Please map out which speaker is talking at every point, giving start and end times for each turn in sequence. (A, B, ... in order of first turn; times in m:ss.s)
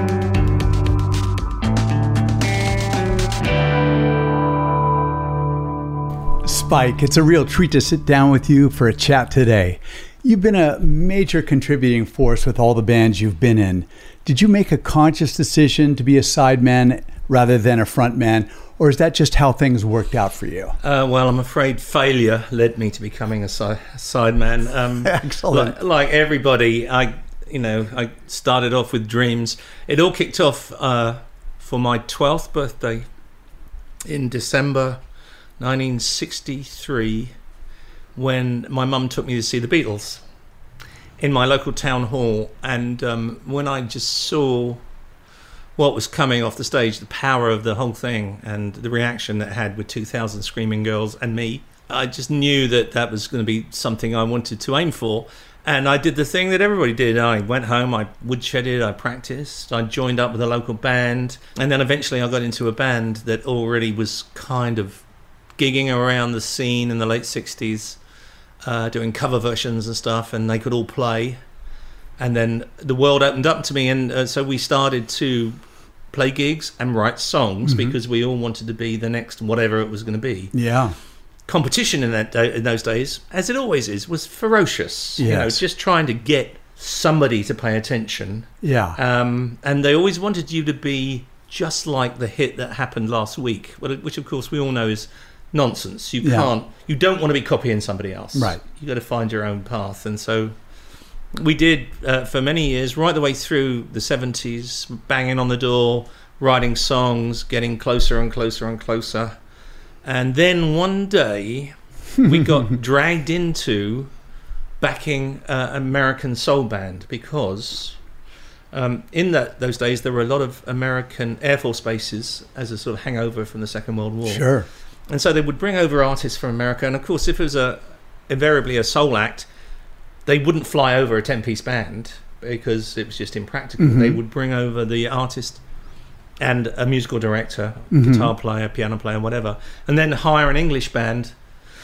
0:06.4-0:20.8 A
0:20.8-0:33.1 B
0:25.0-0:25.8 A
0:34.0-0:35.0 B
0:35.6-0:37.3 B
0:38.2-0:40.2 B
0:41.2-0:44.8 B
0:45.8-1:05.0 B
1:05.6-1:08.0 B
1:08.6-1:11.4 B
1:12.2-1:15.6 B
1:16.1-1:20.5 B
1:17.6-1:17.9 A
1:20.5-1:20.9 A
1:21.5-1:40.5 B
1:25.2-1:25.6 A
1:28.6-1:29.0 A
1:36.2-1:36.5 A
1:38.3-1:38.6 A
1:41.3-1:49.4 B
1:50.0-1:54.1 B
1:52.2-1:52.7 A
1:54.8-1:58.0 B
1:58.7-2:04.5 B
2:04.2-2:04.7 A
2:05.1-2:09.5 B
2:10.2-2:15.6 B
2:13.8-2:14.2 A
2:16.4-2:21.3 B
2:17.9-2:18.3 A